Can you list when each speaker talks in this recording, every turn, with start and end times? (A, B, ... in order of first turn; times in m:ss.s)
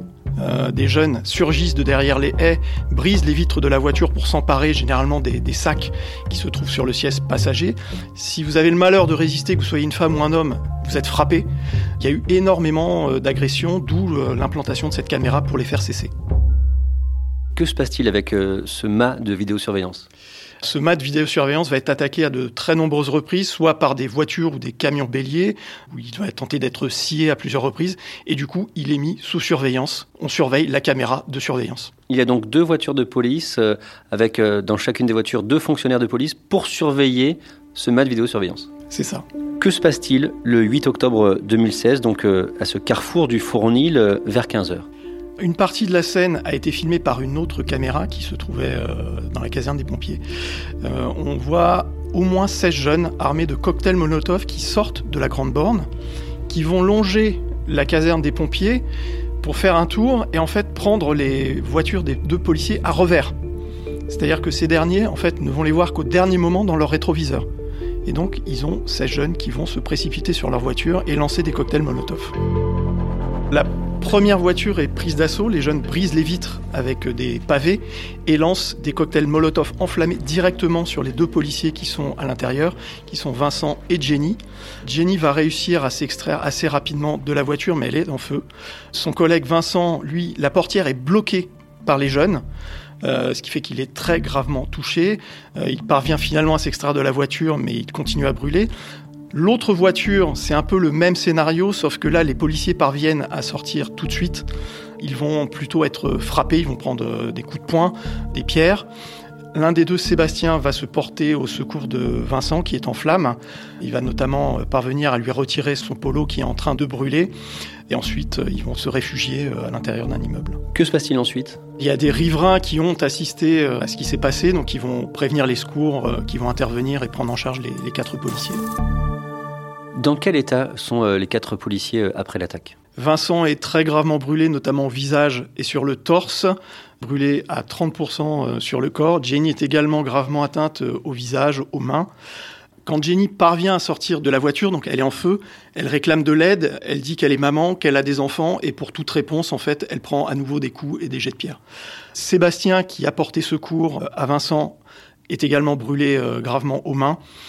0:00.4-0:11.4 A
0:12.0-0:16.1 A
0:17.5-0:20.0 B
0:20.6-0:31.9 A
0:32.1-0:38.7 B
0:38.9-0:39.2 A
0:39.6-0:44.8 B
0:45.4-0:50.2 A
0:50.8-0:55.8 A
0:56.5-0:58.8 A
0:59.4-1:03.3 A
1:04.1-1:07.4 A
1:08.0-1:12.3 A
1:13.5-1:32.4 A
1:33.0-1:38.7 A
1:39.3-1:44.5 A
1:45.0-1:48.9 A
1:49.5-1:57.3 A
1:57.9-2:00.6 A
2:00.7-2:01.6 B
2:01.8-2:08.6 A
2:10.0-2:12.7 B
2:13.0-2:22.1 A
2:22.8-2:31.6 A
2:32.1-2:34.8 A
2:35.3-2:37.2 A